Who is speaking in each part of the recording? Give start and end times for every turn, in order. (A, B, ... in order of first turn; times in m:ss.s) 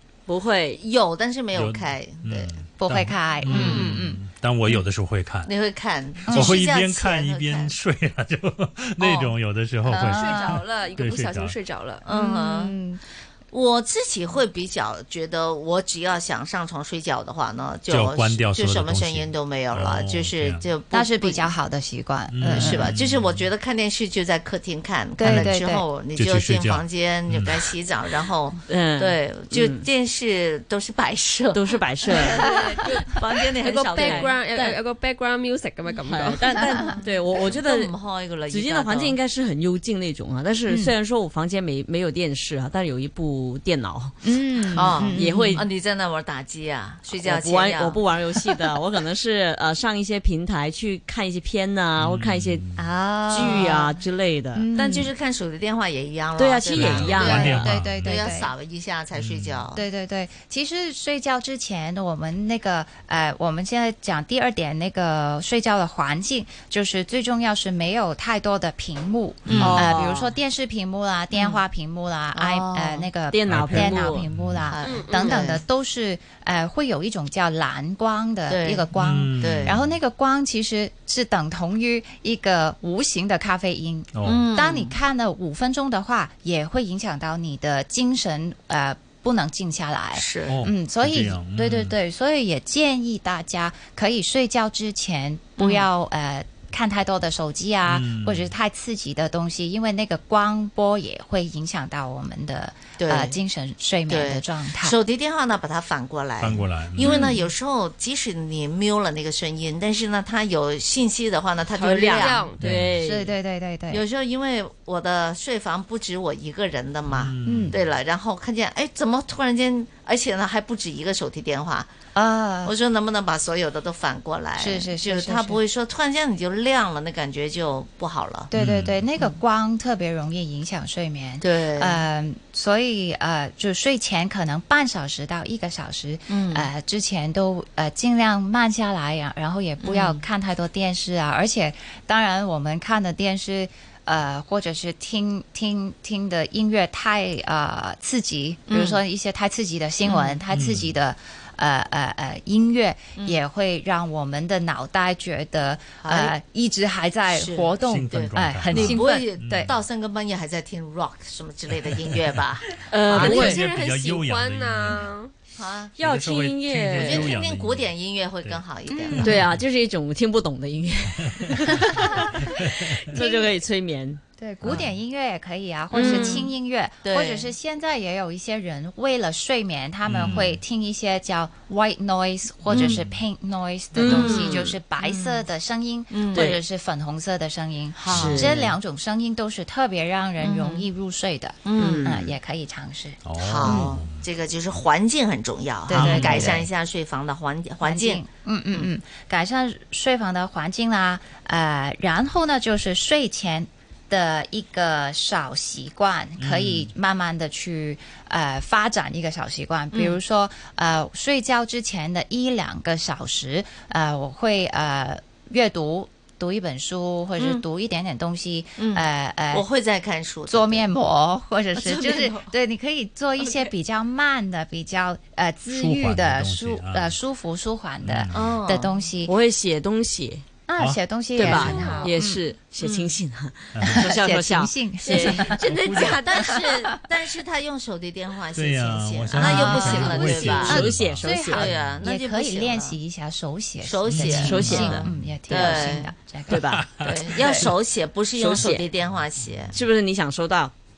0:00.3-0:00.8 A
0:00.7-0:02.5 B
0:01.5-0:05.5 C
0:02.8-0:04.2 D
0:03.5-0:03.9 B
0:05.4-0:07.7 B
0:06.2-0:11.6 C
0:06.3-0:06.6 D
0:09.0-0:09.3 B
0:10.0-0:12.0 E
0:12.0-0:12.8 B
0:12.1-0:13.0 D
0:13.5-0:21.5 B
0:17.9-0:20.7 C
0:20.9-0:22.8 D
0:22.3-0:23.5 C
0:22.5-0:34.3 B
0:25.2-0:25.8 D
0:25.2-0:25.5 C
0:26.1-0:27.7 C
0:28.7-0:29.9 A
0:31.5-0:32.8 A
0:32.3-0:33.0 E
0:33.6-0:36.9 E
0:33.7-0:34.8 A
0:36.0-0:44.1 A
0:37.0-0:39.2 B
0:40.7-0:40.9 D
0:44.2-0:45.6 D
0:44.7-0:48.1 B
0:44.8-0:45.7 A
0:47.1-0:52.6 A
0:52.0-0:52.8 C
0:52.8-0:53.9 B
0:53.1-0:53.7 D
0:53.3-0:54.7 A
0:54.5-0:55.1 D
0:54.7-0:59.8 B
0:56.4-0:57.7 A
0:56.7-0:58.3 C
0:57.2-0:58.5 D
0:59.1-0:59.6 C
0:59.7-1:45.0 D
1:09.4-1:09.9 C
1:09.5-1:10.1 B
1:09.5-1:10.3 A
1:11.3-1:11.6 B
1:12.3-1:13.1 B
1:13.3-1:14.2 A
1:13.5-1:14.7 C
1:14.7-1:15.6 B
1:14.8-1:15.5 E
1:18.5-1:19.8 B
1:18.9-1:20.0 C
1:24.1-1:24.4 C
1:24.2-1:24.9 B
1:30.1-1:30.6 B
1:30.5-1:32.0 C
1:35.6-1:35.9 B
1:37.8-1:38.5 C
1:43.0-1:43.4 B
1:44.1-1:52.5 B
1:46.4-1:47.2 C
1:47.0-1:47.4 D
1:51.7-1:52.6 E
1:52.5-1:53.3 A
1:52.6-1:52.9 C
1:53.0-1:54.0 D
1:53.9-2:01.9 B
1:57.1-1:57.8 C
1:57.4-1:57.8 D
2:02.1-2:02.7 D
2:02.6-2:08.5 B
2:04.6-2:05.6 D
2:08.5-2:39.7 D
2:08.5-2:09.0 C
2:11.4-2:12.0 B
2:16.3-2:16.7 B
2:19.8-2:20.2 B
2:28.7-2:29.0 B
2:30.0-2:30.4 B
2:30.5-2:31.0 C
2:33.2-2:33.4 B
2:36.0-2:36.3 B
2:37.3-2:42.8 B
2:37.8-2:39.8 C
2:42.8-2:43.6 A
2:43.1-2:45.1 C
2:43.1-2:45.3 E
2:45.5-2:45.9 B
2:46.0-2:47.3 A
2:46.0-2:49.6 C
2:46.9-2:49.4 B
2:48.9-2:49.4 D
2:49.2-2:54.2 A
2:53.1-2:53.5 D
2:54.4-3:14.0 D
2:54.6-2:54.9 B
2:55.9-2:56.5 A
2:56.0-2:56.4 E
2:57.0-2:57.5 B
3:00.0-3:00.6 C
3:02.7-3:03.0 B
3:02.7-3:03.2 C
3:03.9-3:04.7 A
3:04.0-3:05.4 B
3:06.1-3:06.6 B
3:06.3-3:06.6 A
3:08.0-3:08.6 B
3:08.1-3:08.7 A
3:10.4-3:10.9 B
3:11.6-3:12.3 B
3:11.8-3:12.2 A
3:13.2-3:14.2 C
3:13.4-3:18.9 B
3:15.9-3:16.6 D
3:15.9-3:16.4 A
3:16.0-3:16.5 C
3:17.8-3:39.6 D
3:26.4-3:26.9 C
3:29.9-3:30.2 B
3:37.4-3:37.6 B
3:38.8-3:40.9 B
3:40.5-3:49.3 D
3:41.7-3:42.5 B
3:43.4-3:43.7 B
3:45.7-3:47.2 C
3:48.0-3:48.4 C
3:48.3-3:48.9 B
3:49.2-3:50.4 A
3:50.7-3:52.4 D
3:50.8-3:51.8 C
3:51.3-3:55.5 A
3:51.7-3:52.1 E
3:52.8-3:53.2 B
3:53.8-3:54.0 C
3:53.9-3:55.6 D
3:55.0-3:56.9 E
3:55.7-3:56.1 C
3:55.8-4:00.8 B
3:58.5-4:02.0 C
3:59.3-4:06.6 D
4:00.2-4:01.7 A
4:01.5-4:03.0 B
4:03.8-4:06.1 B
4:04.1-4:05.3 C
4:04.3-4:05.0 A
4:06.5-4:06.9 A
4:06.6-4:07.7 C
4:07.0-4:09.8 B
4:08.3-4:08.9 A
4:09.7-4:10.7 A